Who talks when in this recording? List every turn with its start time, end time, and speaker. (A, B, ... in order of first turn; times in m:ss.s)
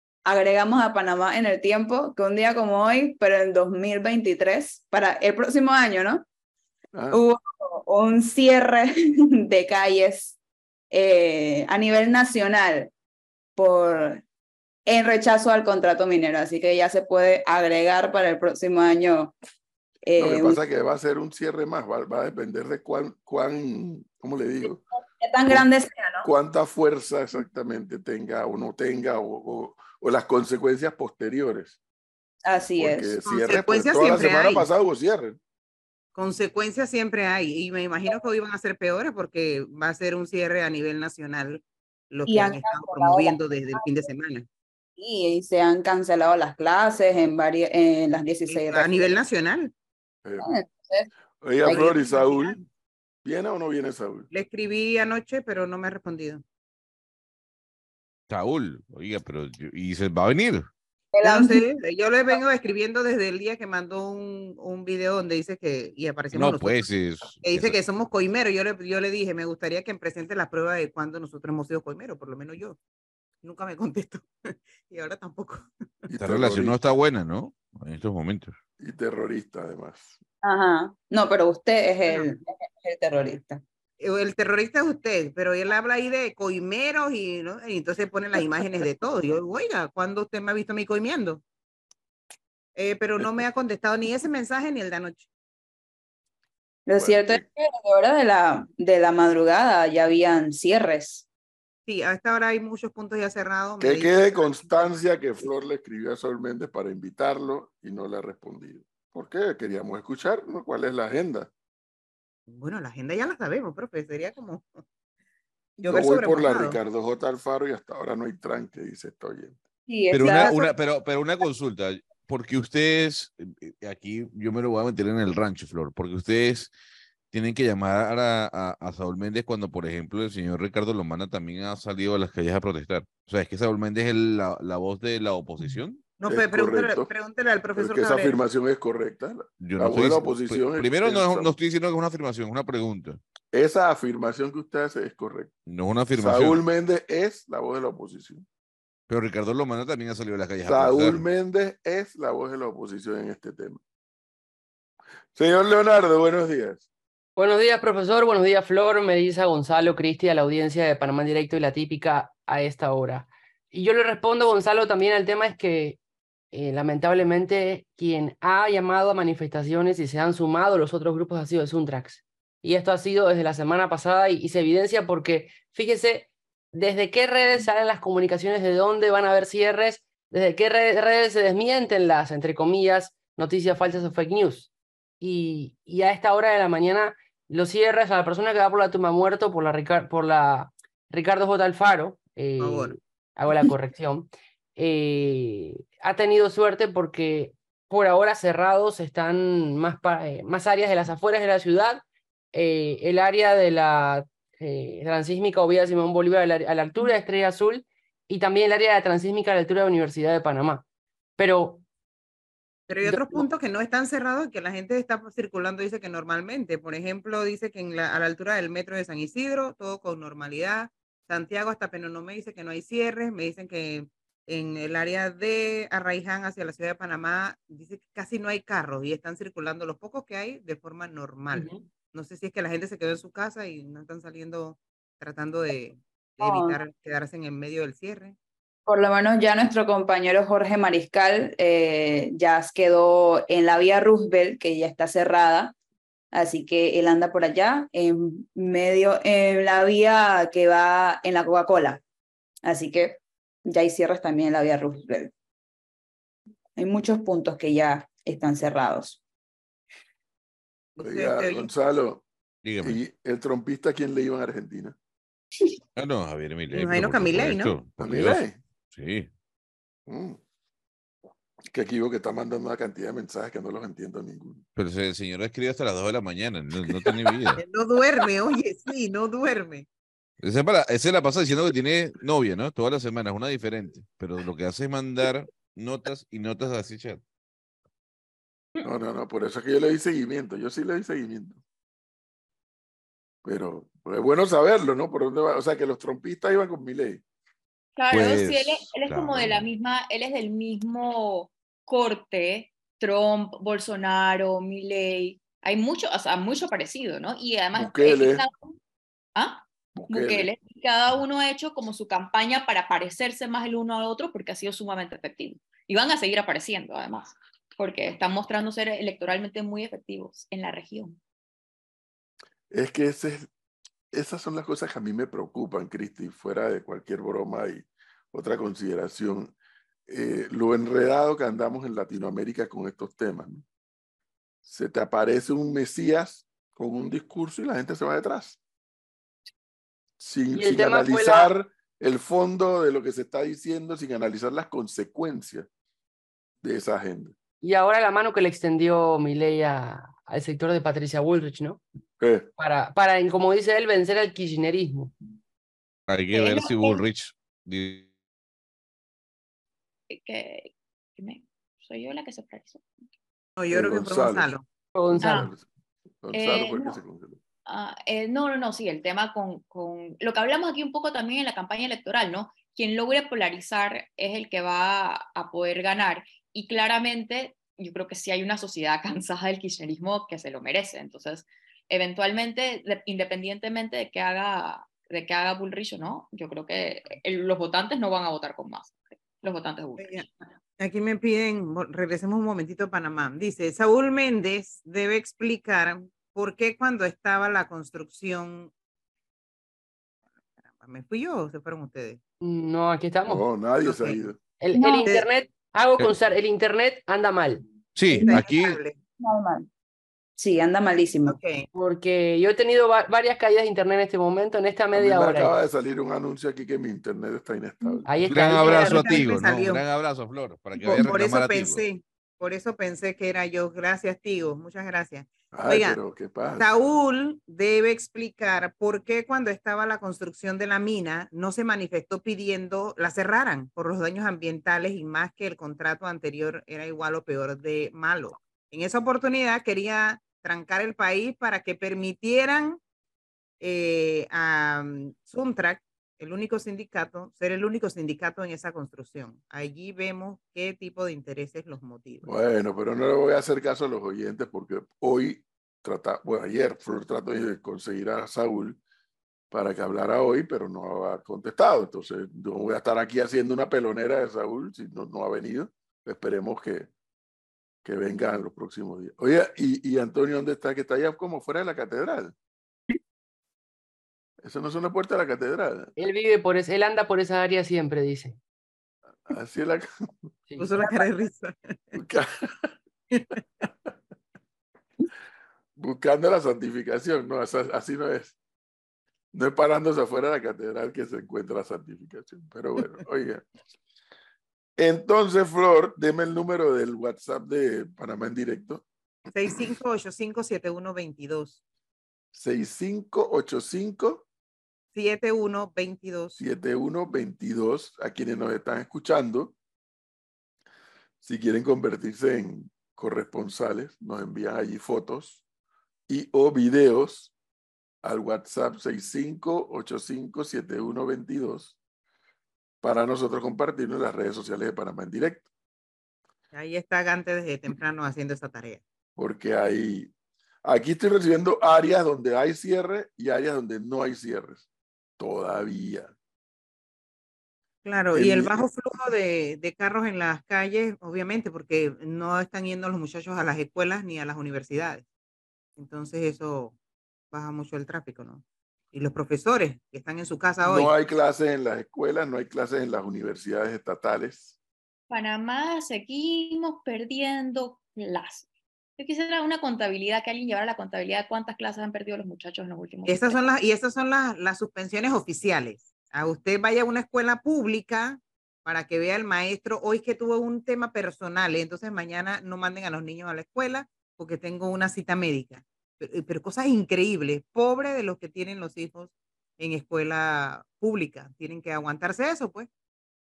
0:00.3-0:06.3 A
0:06.9-0:07.2 B
0:07.1-0:10.4 A
0:10.9-0:12.9 A
0:13.6-0:14.2 A
0:14.9-0:19.3 A
0:20.0-0:20.6 A
0:20.2-0:24.8 B
0:25.2-0:26.3 A
0:26.2-0:31.8 B
0:32.4-0:33.2 A
0:32.8-0:35.4 B
0:33.3-0:34.7 C
0:36.2-0:44.5 C
0:42.3-0:43.9 A
0:45.0-0:49.2 A
0:48.5-0:49.7 C
0:50.2-0:50.5 B
0:50.4-0:51.1 A
0:51.4-0:52.6 B
0:51.6-0:52.1 A
0:51.7-0:52.6 C
0:53.2-0:54.3 B
0:54.3-0:56.4 C
0:58.3-1:00.7 D
1:01.1-1:01.6 A
1:01.2-1:06.9 C
1:06.3-1:07.8 D
1:07.4-1:12.8 C
1:13.4-1:16.1 C
1:16.1-1:16.8 B
1:16.2-1:18.6 D
1:18.8-1:20.2 B
1:20.4-1:23.6 A
1:24.0-1:31.4 C
1:32.8-1:35.3 C
1:36.9-1:41.3 A
1:37.0-1:37.4 B
1:41.9-1:44.9 C
1:43.8-1:51.5 B
1:52.5-1:54.7 C
1:55.8-1:59.6 B
1:55.8-1:56.8 C
1:59.9-2:00.6 A
2:00.1-2:06.7 D
2:07.3-2:16.1 D
2:16.2-2:18.4 C
2:16.3-2:17.1 B
2:17.8-2:21.6 B
2:19.6-2:23.2 D
2:23.5-2:25.5 B
2:25.7-2:26.6 D
2:26.1-2:28.4 B
2:29.1-2:31.2 D
2:30.7-2:33.8 B
2:35.4-2:36.8 B
2:37.4-2:46.0 E
2:46.5-3:30.8 E
3:12.6-3:13.0 C
3:31.4-3:31.8 E
3:32.9-3:58.4 C
3:33.0-3:33.5 E
3:56.4-3:56.8 A
3:58.9-4:05.8 A
4:06.3-4:12.0 A
4:12.7-4:15.3 A
4:16.8-4:19.2 A
4:21.0-4:21.7 C
4:21.0-4:22.2 B
4:22.6-4:23.0 D
4:22.8-4:25.0 B
4:26.0-4:29.3 D
4:26.7-4:27.8 C
4:28.0-4:28.6 B
4:30.1-4:30.4 B
4:31.7-4:34.6 B
4:34.8-4:37.6 D
4:37.6-4:39.9 C
4:40.4-4:47.2 D
4:48.8-4:51.6 B
4:53.4-4:57.2 B
4:58.0-5:08.6 F
4:58.1-4:59.7 D
5:07.7-5:08.4 B
5:09.4-5:21.2 F
5:10.0-5:10.5 B
5:22.7-5:23.5 B
5:24.1-5:29.5 B
5:30.1-5:33.6 B
5:34.6-5:38.6 B
5:40.2-5:45.7 B
5:40.6-5:41.5 E
5:46.6-5:47.4 B
5:47.6-5:51.8 E
5:52.2-5:52.5 B
5:52.6-5:55.1 E
5:56.1-5:58.1 D
5:56.3-5:57.0 F
6:00.1-6:02.8 F
6:03.6-6:04.6 C
6:03.7-6:04.5 B
6:05.0-6:05.4 E
6:05.1-6:05.6 B
6:05.2-6:05.5 F
6:06.2-6:07.4 B
6:06.3-6:07.0 F
6:07.7-6:30.2 F
6:30.0-6:30.3 C
6:30.8-6:38.7 C
6:40.7-6:42.2 C
6:42.4-6:43.4 E
6:43.3-6:44.4 B
6:43.8-6:44.2 C
6:44.6-6:47.6 E
6:44.7-6:45.2 A
6:48.0-6:48.8 D
6:48.1-6:48.5 A
6:48.1-6:49.0 C
6:49.2-6:49.7 A
6:50.4-6:51.4 A
6:51.3-6:51.7 C
6:51.8-6:55.6 E
6:54.9-6:58.2 B
6:58.1-6:59.2 E
6:58.2-7:01.8 D
6:58.6-6:59.8 C
7:00.8-7:06.0 C
7:05.5-7:06.7 B
7:06.6-7:22.8 C
7:23.6-7:32.3 C
7:32.2-7:38.8 B
7:39.5-7:46.9 B
7:47.8-7:52.3 B
7:54.4-7:55.9 B
7:56.0-7:58.4 E
7:59.3-8:00.2 B
8:00.5-8:01.0 E
8:00.6-8:01.9 C
8:01.9-8:02.4 B
8:03.1-8:03.4 C
8:05.8-8:08.4 B
8:09.3-8:13.4 B
8:14.8-8:18.8 B
8:19.3-8:21.6 C
8:22.3-8:24.2 B
8:25.0-8:26.4 C
8:26.4-8:29.6 B
8:31.2-8:35.4 B
8:36.1-8:37.3 B
8:38.0-8:41.8 B
8:42.8-8:45.5 B
8:46.5-8:48.8 C
8:49.2-8:50.1 B
8:50.6-8:54.6 B
8:55.2-8:56.1 B
8:57.8-9:05.0 C
8:58.2-8:58.6 B
9:05.8-9:06.8 C
9:07.3-9:10.9 C
9:10.6-9:14.5 B
9:15.1-9:18.5 F
9:19.0-9:23.4 F
9:23.1-9:42.7 C